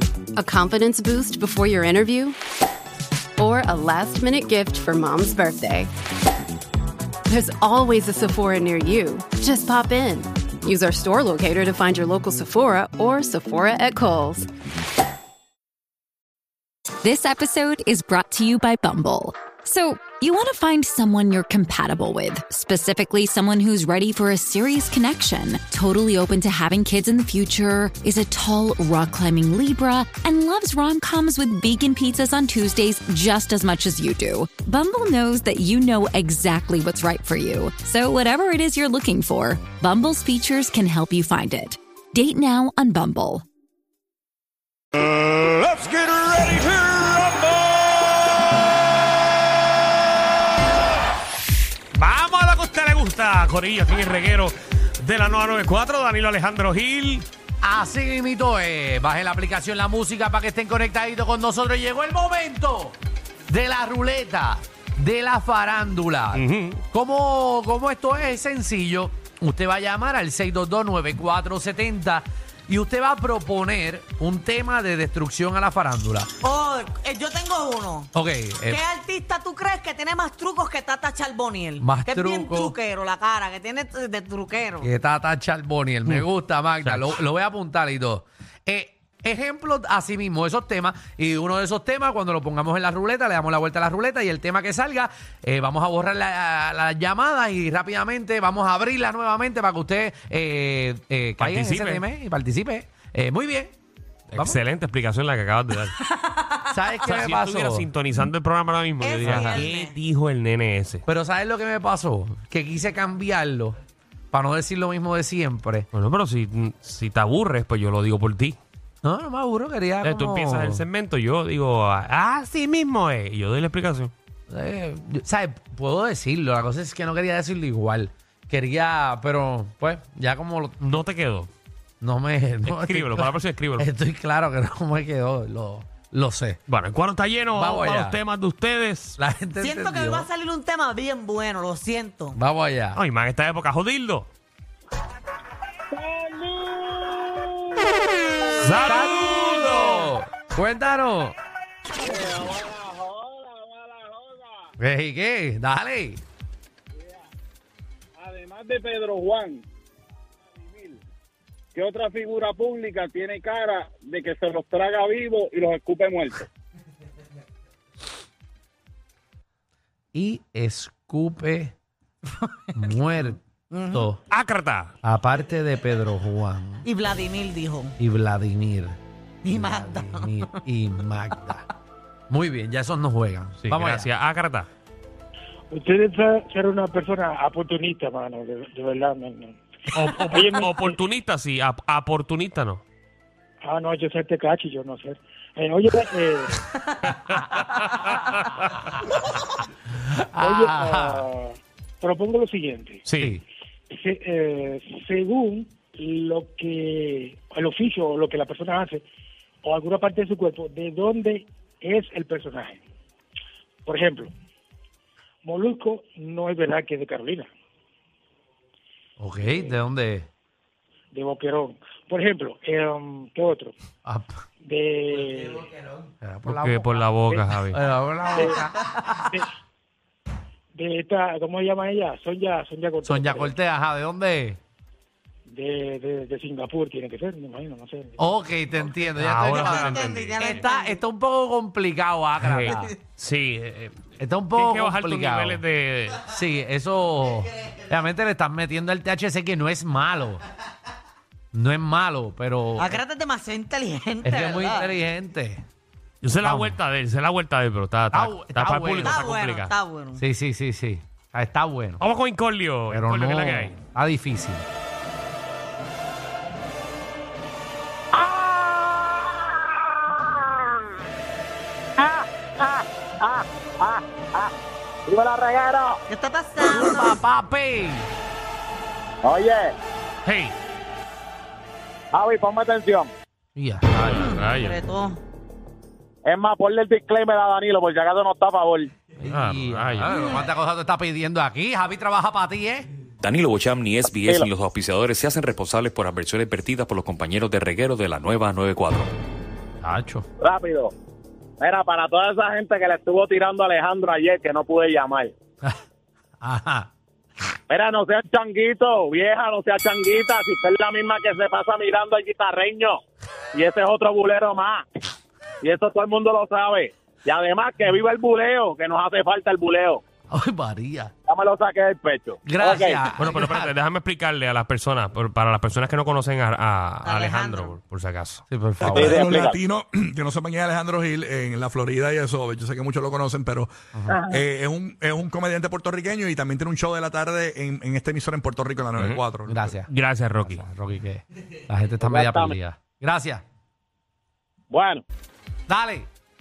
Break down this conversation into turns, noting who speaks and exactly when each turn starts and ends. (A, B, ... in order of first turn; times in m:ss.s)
0:00.4-0:02.4 A
0:03.4-0:05.9 A
0:07.3-0:14.5 A
0:17.0-0:43.4 B
0:51.9-0:57.3 C
0:57.6-1:16.3 D
1:06.3-1:06.8 C
1:16.4-1:18.1 E
1:18.1-1:18.8 D
1:18.6-1:24.9 E
1:21.8-1:22.7 D
1:24.8-1:43.8 D
1:26.8-1:27.2 C
1:41.4-1:42.0 C
1:44.3-1:46.0 C
1:44.3-1:44.6 D
1:46.0-1:46.7 E
1:46.7-1:47.9 D
1:47.0-1:51.0 C
1:49.0-1:50.0 E
1:49.2-1:49.6 D
1:51.1-1:53.8 D
1:54.3-1:55.9 D
1:55.9-1:58.6 C
1:59.0-2:00.8 D
2:00.0-2:04.1 C
2:04.5-2:10.9 D
2:10.8-2:11.5 C
2:12.0-2:16.6 D
2:12.7-2:13.9 C
2:16.7-2:19.2 C
2:17.5-2:18.2 D
2:19.2-2:20.3 D
2:19.6-2:22.4 E
2:22.3-2:23.0 D
2:23.0-2:24.3 C
2:26.0-2:27.5 F
2:28.6-2:30.1 C
2:28.7-2:31.4 D
2:32.0-2:34.7 F
2:34.8-2:36.2 D
2:38.2-2:39.6 F
2:40.6-2:41.0 F
2:41.8-2:46.4 F
2:50.1-2:51.8 D
2:52.3-2:52.9 E
2:52.8-2:53.4 D
2:53.7-2:54.1 E
2:53.9-2:54.2 D
2:54.3-2:54.9 C
2:55.0-2:56.9 D
2:56.8-2:57.9 E
2:58.0-2:59.0 D
2:59.4-3:00.6 E
2:59.5-3:01.7 D
3:02.3-3:04.1 D
3:03.6-3:04.7 C
3:05.7-3:11.0 G
3:09.9-3:12.8 C
3:13.6-3:16.5 G
3:17.0-3:18.7 C
3:19.9-3:21.2 D
3:20.4-3:23.0 G
3:23.0-3:23.4 C
3:23.2-3:23.4 D
3:23.9-3:29.0 G
3:29.6-3:32.8 G
3:33.9-3:34.3 G
3:35.4-3:37.5 G
3:39.2-3:40.3 D
3:41.1-3:43.7 G
3:44.0-3:44.4 D
3:44.6-3:45.7 G
3:46.2-3:47.0 D
3:46.5-3:47.8 C
3:47.7-3:48.8 D
3:48.3-3:48.6 G
3:49.2-3:49.5 G
3:50.8-3:53.5 G
3:53.0-3:54.6 D
3:55.5-3:58.3 G
3:58.2-4:02.9 D
3:59.2-4:00.6 C
3:59.4-4:01.0 E
4:02.4-4:04.0 C
4:04.2-4:05.6 D
4:04.5-4:06.2 C
4:06.2-4:10.4 D
4:11.5-4:13.0 D
4:12.8-4:14.9 E
4:14.2-4:15.6 D
4:16.2-4:19.7 C
4:16.4-4:16.8 D
4:18.1-4:19.2 D
4:19.0-4:20.2 E
4:20.2-4:22.0 D
4:22.0-4:23.8 C
4:22.9-4:24.7 D
4:28.2-4:29.1 F
4:32.0-4:34.5 F
4:35.1-4:36.0 F
4:36.1-4:37.2 E
4:36.6-4:38.1 D
4:39.2-4:39.8 F
4:40.2-4:40.5 C
4:42.1-4:43.1 F
4:43.6-4:44.5 D
4:44.0-4:44.8 C
4:44.2-4:45.2 E
4:46.2-4:48.9 F
4:49.2-4:52.9 D
4:49.2-4:50.4 C
4:53.2-4:59.1 H
4:54.1-4:54.5 F
4:59.8-5:00.3 D
5:00.4-5:00.9 F
5:01.6-5:05.3 F
5:06.4-5:06.9 D
5:07.7-5:13.0 F
5:13.5-5:14.9 F
5:15.6-5:20.0 F
5:20.3-5:21.1 D
5:21.3-5:23.1 F
5:22.4-5:23.7 D
5:23.2-5:28.4 C
5:27.1-5:27.8 E
5:28.5-5:29.4 D
5:28.8-5:29.6 F
5:29.3-5:33.7 I
5:34.3-5:39.7 I
5:39.5-5:43.4 D
5:39.9-5:40.6 C
5:42.1-5:42.6 F
5:44.7-5:45.0 F
5:45.7-5:46.1 D